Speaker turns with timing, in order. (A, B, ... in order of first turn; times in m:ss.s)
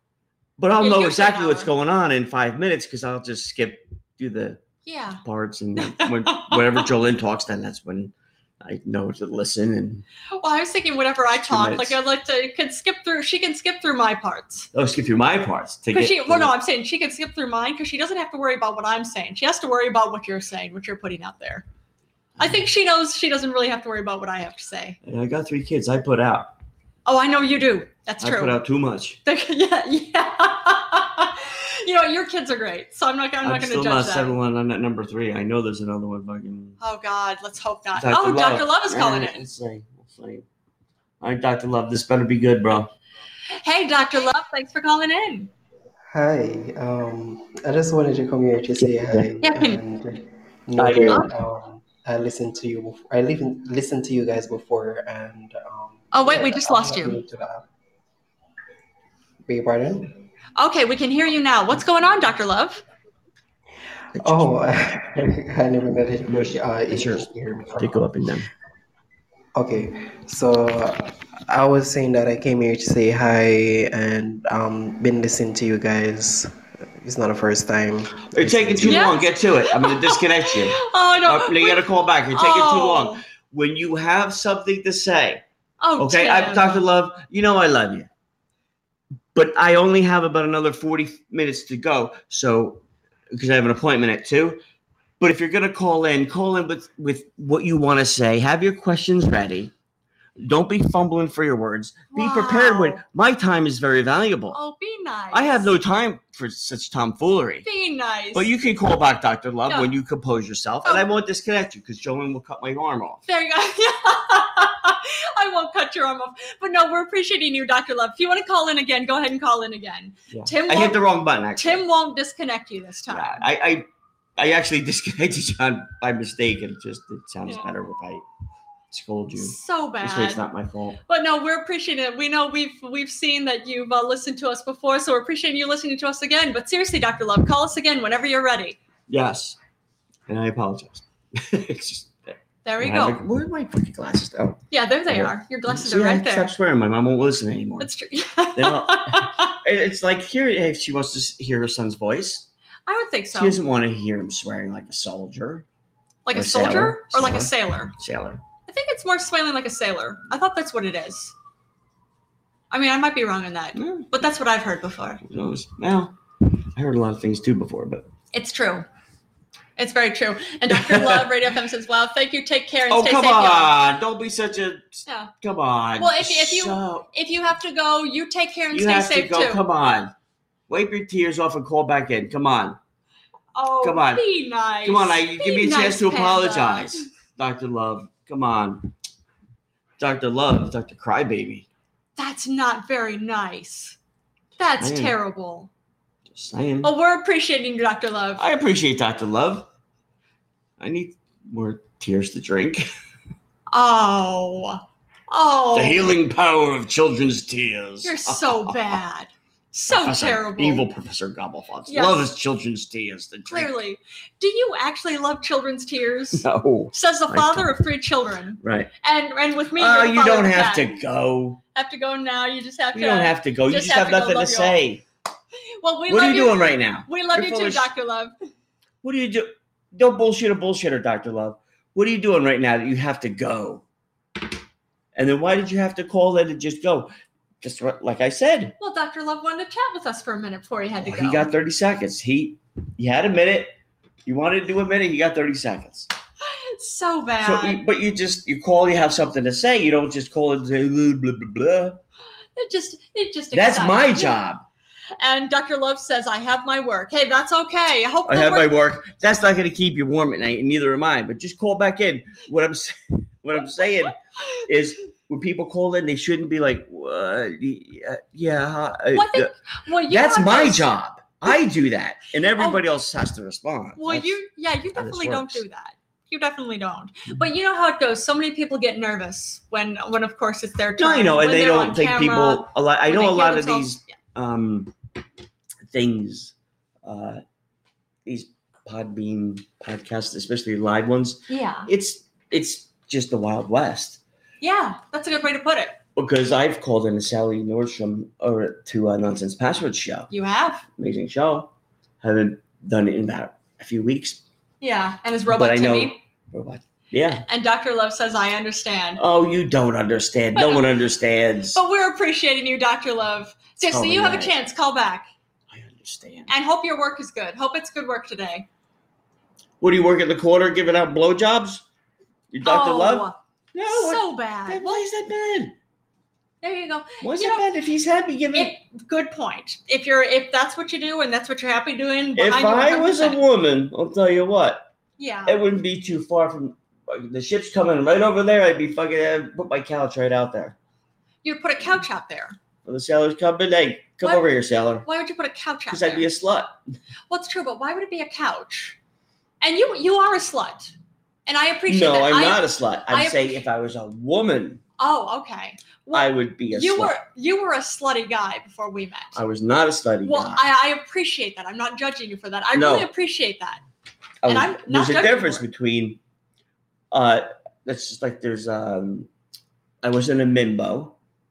0:00.6-0:04.6 A
0:00.8-0:01.7 B
0:04.9-0:05.2 B
0:05.2-0:10.0 A
0:05.8-0:06.8 B
0:10.4-0:14.7 B
0:11.4-0:12.0 A
0:14.7-0:16.5 A
0:15.9-0:21.6 B
0:22.4-0:25.0 B
0:25.0-0:26.5 A
0:27.1-0:28.6 B
0:28.2-0:29.2 A
0:29.2-0:34.4 B
0:33.4-0:36.8 A
0:36.8-0:39.4 B
0:38.0-0:40.4 A
0:41.2-0:42.9 A
0:43.6-0:45.5 B
0:46.1-0:57.6 C
0:49.0-0:49.3 A
0:49.4-0:49.8 B
0:50.8-0:51.3 A
0:56.1-0:57.2 B
0:59.5-1:00.1 C
1:00.6-1:02.8 B
1:04.1-1:05.3 A
1:04.2-1:08.0 C
1:06.3-1:08.5 A
1:09.6-1:19.1 C
1:18.3-1:25.4 A
1:18.8-1:23.2 B
1:25.8-1:26.8 B
1:26.0-1:28.1 A
1:29.3-1:34.6 A
1:35.2-1:39.7 A
1:40.4-1:44.6 A
1:42.1-1:43.0 B
1:44.5-1:45.7 B
1:45.3-1:47.7 A
1:47.6-1:48.5 B
1:48.3-1:53.3 A
1:53.3-2:01.0 B
2:00.3-2:01.8 A
2:01.6-2:03.4 B
2:03.1-2:03.9 A
2:04.4-2:08.2 A
2:08.9-2:11.0 A
2:09.4-2:10.4 B
2:11.1-2:18.8 B
2:19.1-2:19.6 A
2:20.3-2:22.2 A
2:22.6-2:23.2 B
2:22.8-2:27.9 A
2:24.7-2:26.5 B
2:27.8-2:29.5 B
2:28.6-2:32.5 A
2:32.9-2:33.6 B
2:33.3-2:35.7 A
2:36.3-2:37.9 B
2:36.3-2:38.4 A
2:38.7-2:41.3 B
2:42.7-2:45.2 B
2:43.8-2:44.1 A
2:45.2-2:48.1 A
2:48.3-2:48.9 B
2:49.8-2:53.7 B
2:50.7-2:51.3 A
2:52.9-2:57.1 A
2:55.1-2:55.3 B
2:56.0-2:59.6 B
2:58.7-3:00.1 A
3:00.7-3:02.8 A
3:03.6-3:07.1 B
3:03.8-3:04.2 A
3:04.8-3:08.9 A
3:10.0-3:11.7 A
3:12.2-3:14.0 B
3:14.6-3:15.7 B
3:14.8-3:15.2 A
3:16.3-3:16.9 A
3:16.8-3:18.4 B
3:18.4-3:19.7 A
3:20.8-3:22.9 A
3:23.7-3:26.1 B
3:25.7-3:29.0 A
3:28.0-3:30.8 B
3:29.9-3:33.7 A
3:31.9-3:32.3 B
3:33.5-3:41.0 B
3:36.4-3:37.7 A
3:38.6-3:38.9 A
3:39.8-3:41.6 A
3:41.7-3:44.8 B
3:42.9-3:45.0 A
3:45.8-3:48.3 B
3:46.1-3:47.9 A
3:49.0-3:53.8 A
3:55.2-3:58.8 A
3:58.8-4:01.5 B
4:01.0-4:03.7 A
4:04.3-4:06.1 A
4:06.5-4:07.8 B
4:07.4-4:12.0 A
4:12.6-4:14.4 B
4:13.5-4:14.6 A
4:15.2-4:18.7 B
4:18.3-4:29.5 A
4:29.1-4:30.9 B
4:30.1-4:34.4 A
4:34.0-4:44.1 B
4:35.0-4:35.6 A
4:41.0-4:44.9 A
4:45.9-4:46.5 A
4:47.0-4:47.4 A
4:48.3-4:54.2 A
4:51.5-4:51.9 B
4:54.6-4:56.0 B
4:56.2-5:00.3 A
5:00.3-5:00.8 B
5:01.0-5:01.7 A
5:02.2-5:04.4 A
5:04.8-5:06.2 B
5:05.5-5:07.4 A
5:07.5-5:09.2 B
5:09.2-5:11.8 A
5:10.6-5:10.8 B
5:11.7-5:15.3 B
5:13.8-5:14.6 A
5:15.7-5:16.5 A
5:16.5-5:18.7 B
5:19.8-5:21.8 A
5:22.5-5:25.8 A
5:22.6-5:23.4 B
5:23.9-5:25.0 B
5:26.6-5:27.6 B
5:27.2-5:28.7 A
5:28.5-5:33.4 B
5:32.4-5:34.9 A
5:35.2-5:35.6 B
5:35.5-5:40.8 A
5:41.4-5:42.6 B
5:42.8-5:45.1 A
5:45.0-5:46.3 B
5:45.9-5:46.8 A
5:47.3-5:49.0 B
5:49.6-5:50.9 B
5:51.5-5:53.6 B
5:51.9-5:54.8 A
5:55.0-5:59.4 B
5:56.1-5:57.2 A
5:59.4-6:00.6 A
6:00.2-6:03.8 B
6:02.7-6:03.1 A
6:04.4-6:06.2 A
6:04.5-6:05.6 B
6:07.1-6:09.3 A
6:10.0-6:11.2 A